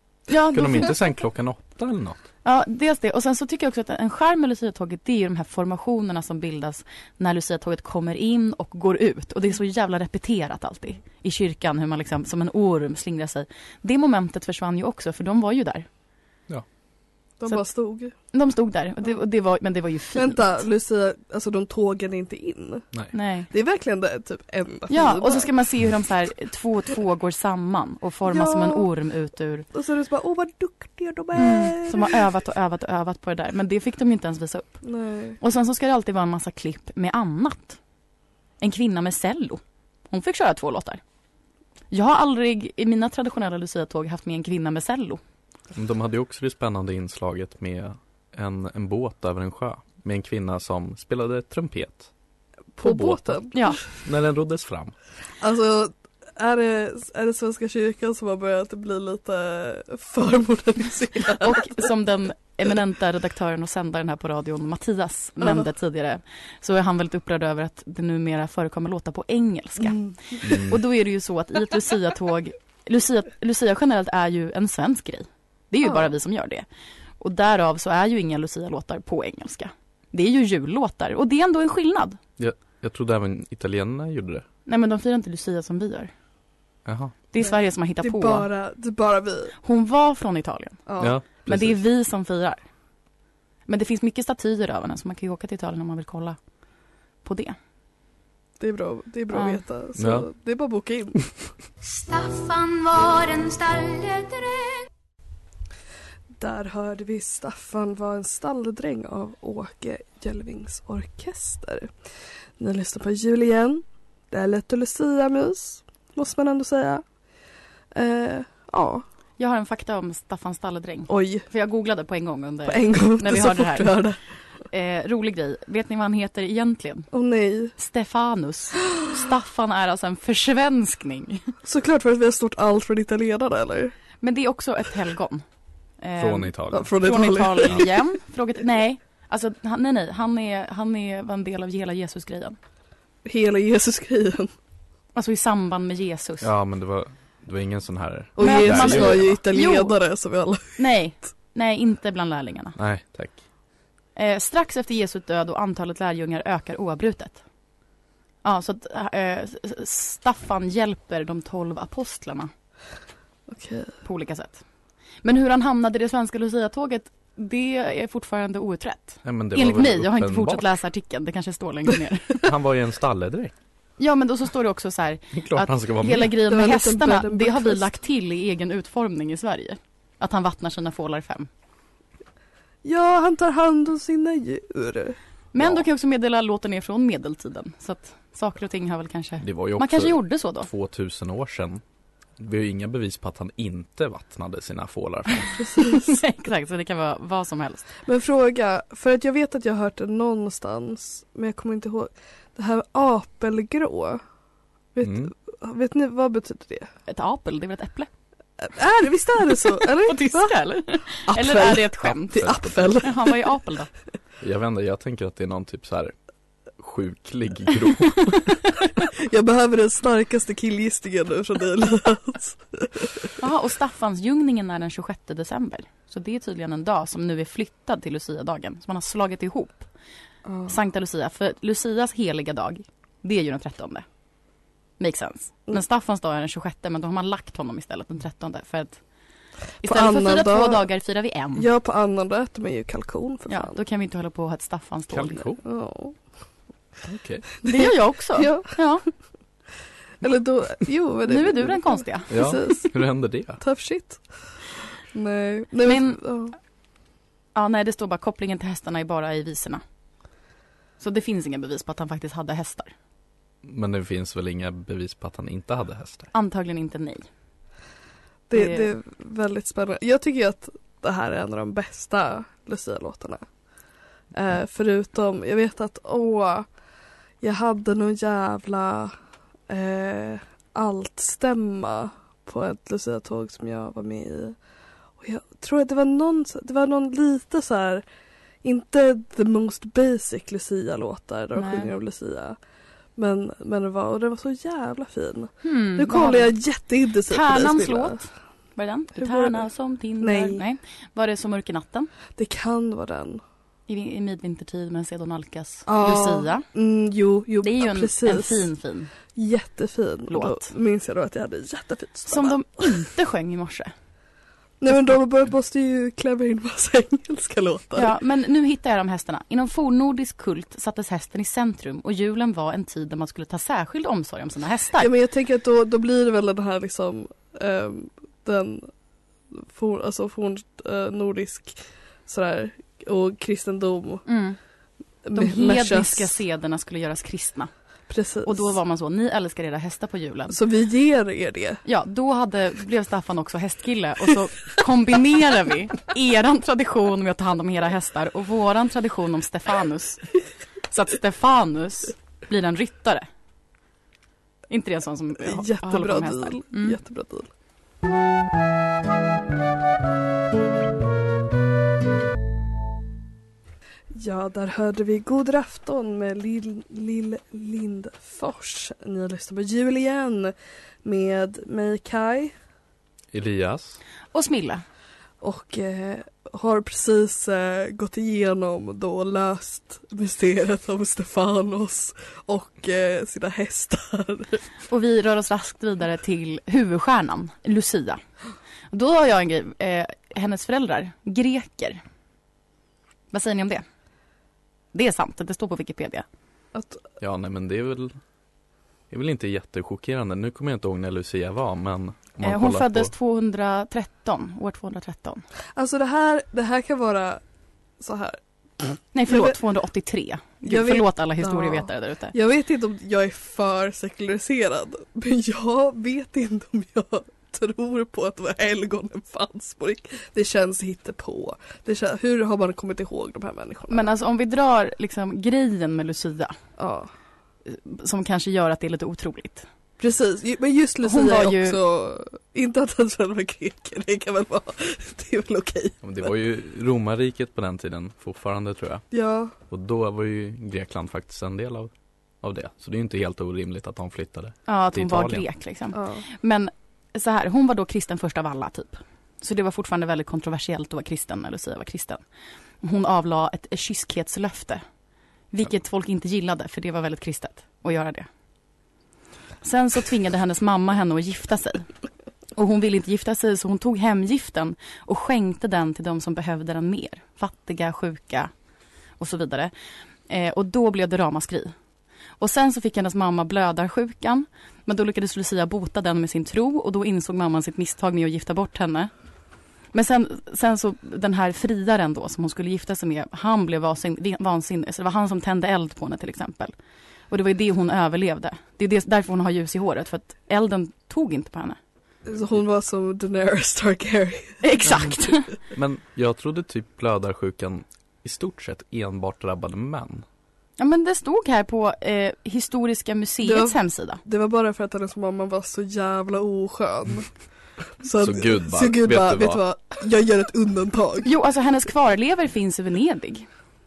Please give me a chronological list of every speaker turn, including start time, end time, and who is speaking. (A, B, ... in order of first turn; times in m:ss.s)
0:00.3-0:01.0 A
0:00.5-0:02.2 B
0:02.4-0:15.9 A
0:17.4-0:18.1 C
0:18.3-0:20.6 A
0:20.2-0:22.9 C
0:23.1-0:23.5 A
0:23.5-0:25.5 C
0:24.9-0:29.7 A
0:28.2-0:28.9 C
0:29.7-0:32.2 C
0:31.4-0:34.8 A
0:34.8-0:35.4 C
0:35.4-0:37.8 A
0:38.6-0:41.0 A
0:41.9-0:45.2 A
0:45.7-0:52.1 B
0:52.8-0:53.6 C
0:52.8-0:54.9 B
0:53.5-0:53.8 A
0:55.4-1:01.8 C
1:01.4-1:16.7 A
1:05.4-1:05.7 C
1:09.8-1:10.4 C
1:10.4-1:10.8 B
1:15.8-1:16.1 C
1:17.2-1:22.2 A
1:22.4-1:24.4 B
1:24.7-1:26.1 A
1:26.8-1:27.1 B
1:27.3-1:28.5 A
1:27.4-1:29.6 C
1:29.6-1:30.8 A
1:30.9-1:31.2 C
1:31.0-1:31.8 B
1:31.4-1:32.6 A
1:33.7-1:36.4 A
1:37.2-1:37.6 A
1:38.6-1:41.2 C
1:39.3-1:39.6 A
1:40.0-1:40.3 B
1:41.8-1:44.9 D
1:46.4-1:51.9 C
1:52.6-1:57.0 C
1:57.9-1:59.0 C
1:59.4-2:04.0 A
2:01.1-2:01.5 C
2:02.7-2:04.2 C
2:04.7-2:07.1 A
2:07.1-2:07.8 C
2:07.8-2:11.4 A
2:11.6-2:14.0 C
2:14.2-2:15.4 A
2:16.0-2:22.6 A
2:16.2-2:17.0 B
2:16.7-2:17.9 C
2:23.2-2:24.5 C
2:25.2-2:26.5 A
2:26.4-2:29.4 B
2:28.4-2:30.8 C
2:28.4-2:30.0 A
2:30.8-2:32.8 A
2:32.8-2:33.4 B
2:34.2-2:37.4 A
2:38.4-2:42.5 A
2:43.5-2:44.0 C
2:44.0-2:44.6 A
2:45.2-2:52.4 A
2:49.2-2:50.7 B
2:52.4-2:53.6 B
2:54.0-3:01.5 A
2:55.3-2:56.3 B
2:56.4-2:57.9 C
3:02.8-3:05.2 C
3:05.5-3:10.7 A
3:05.6-3:05.9 B
3:09.4-3:11.8 B
3:12.4-3:15.6 B
3:15.9-3:17.9 A
3:18.0-3:24.2 C
3:25.0-3:26.9 C
3:25.0-3:25.3 B
3:27.1-3:28.1 A
3:28.6-3:33.5 C
3:30.0-3:33.9 A
3:32.3-3:33.0 B
3:34.4-3:36.2 B
3:36.8-3:38.5 B
3:39.2-3:43.3 C
3:43.4-3:49.9 A
3:50.4-3:50.8 C
3:50.7-3:54.0 A
3:55.0-3:59.0 A
3:59.8-4:01.7 A
3:59.8-4:00.8 C
4:01.6-4:03.8 C
4:03.5-4:05.4 A
4:05.1-4:05.6 B
4:05.6-4:06.2 C
4:07.0-4:07.5 B
4:07.6-4:08.7 C
4:07.6-4:09.0 A
4:10.2-4:13.0 C
4:11.3-4:12.4 A
4:12.3-4:13.6 B
4:13.6-4:14.6 C
4:15.1-4:16.6 C
4:15.8-4:16.2 A
4:17.6-4:19.8 A
4:21.0-4:22.9 A
4:23.6-4:26.3 B
4:26.3-4:27.3 A
4:28.5-4:33.4 C
4:28.5-4:28.9 A
4:34.3-4:36.7 C
4:37.4-4:39.2 C
4:39.7-4:44.6 C
4:45.2-4:48.0 C
4:48.6-4:52.6 C
4:51.5-4:51.9 A
4:53.2-4:58.2 C
4:55.6-4:56.6 A
4:57.3-5:02.1 A
4:59.2-4:59.7 C
5:00.2-5:00.6 C
5:02.4-5:03.4 C
5:03.9-5:06.7 A
5:05.9-5:08.7 C
5:07.6-5:09.1 A
5:09.4-5:12.6 C
5:10.3-5:10.7 A
5:12.3-5:13.9 A
5:14.8-5:18.2 C
5:18.0-5:25.1 A
5:25.0-5:28.9 C
5:29.5-5:34.2 C
5:34.3-5:34.6 A
5:35.2-5:36.4 C
5:35.4-5:37.7 A
5:38.1-5:38.8 C
5:38.4-5:40.6 A
5:40.5-5:41.8 C
5:41.8-5:50.3 A
5:50.9-5:53.3 A
5:54.7-5:57.0 A
5:55.4-5:57.5 C
6:04.1-6:12.5 C
6:13.3-6:14.0 B
6:14.3-6:14.8 A
6:15.4-6:24.6 C
6:24.9-6:28.2 A
6:28.9-6:32.0 A
6:33.3-6:33.8 A
6:34.9-6:36.2 A
6:36.7-6:37.0 C
6:37.2-6:38.2 B
6:39.1-6:43.1 B
6:42.4-6:45.4 A
6:45.8-6:47.4 C
6:48.0-6:48.4 C
6:48.9-6:49.6 C
6:49.1-6:52.4 A
6:50.7-7:04.1 C
7:03.9-7:06.6 A
7:06.8-7:07.1 C
7:07.7-7:09.7 A
7:10.0-7:16.1 C
7:11.0-7:11.8 A
7:16.0-7:19.1 B
7:19.1-7:19.5 C
7:19.7-7:21.9 B
7:22.4-7:25.5 B
7:24.7-7:32.2 A
7:25.9-7:26.2 C
7:32.8-7:34.8 A
7:35.5-7:38.3 A
7:39.6-7:41.9 A
7:42.6-7:48.5 A
7:49.2-7:49.7 A
7:50.3-7:51.7 A
7:52.4-7:59.1 A
7:59.9-8:06.7 A
8:07.3-8:11.8 A
8:12.3-8:15.4 C
8:14.6-8:15.5 A
8:15.7-8:20.2 B
8:20.8-8:24.2 A
8:23.4-8:27.3 C
8:28.0-8:31.3 C
8:28.2-8:29.6 B
8:31.2-8:33.5 A